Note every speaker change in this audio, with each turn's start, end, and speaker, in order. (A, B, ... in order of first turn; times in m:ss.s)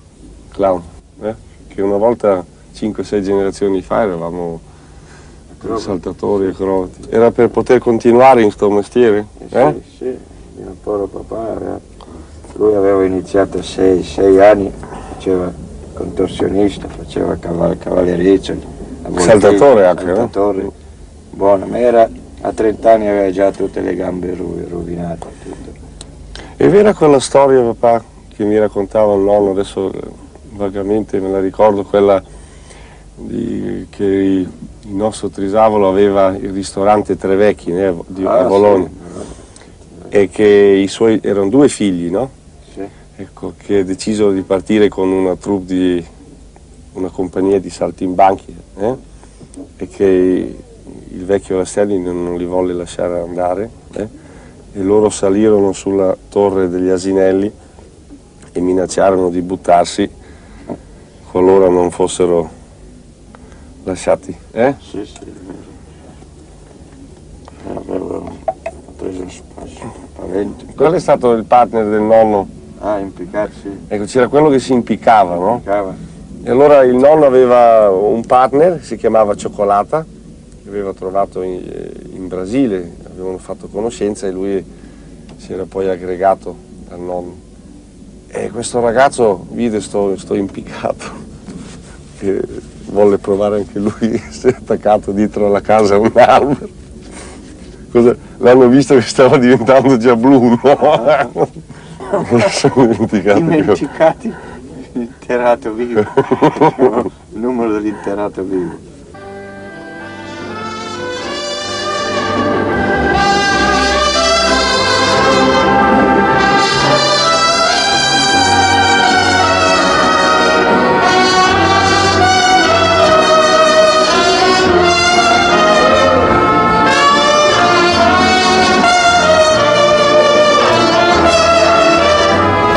0:00.5-0:04.6 A
0:05.6-0:05.9 B
0:05.6-0:09.8 A
0:09.4-0:11.8 B
0:12.5-0:20.7 B
0:19.2-0:20.3 A
0:21.3-0:25.8 B
0:26.6-0:32.2 A
0:33.2-0:38.9 A
0:38.2-0:39.3 B
0:40.1-0:42.3 A
0:43.2-0:46.1 A
0:46.9-0:49.0 A
0:49.8-0:54.1 A
0:54.7-0:57.5 A
0:58.5-1:00.1 A
1:01.2-1:02.5 A
1:03.8-1:04.8 A
1:04.8-1:05.7 B
1:07.6-1:10.7 B
1:10.7-1:12.5 A
1:12.8-1:13.8 B
1:13.9-1:15.6 A
1:15.4-1:16.0 B
1:16.4-1:20.1 A
1:20.6-1:24.6 A
1:25.4-1:27.4 A
1:28.3-1:31.2 A
1:32.2-1:36.7 A
1:37.9-1:43.8 A
1:43.3-1:48.8 B
1:46.2-1:46.8 A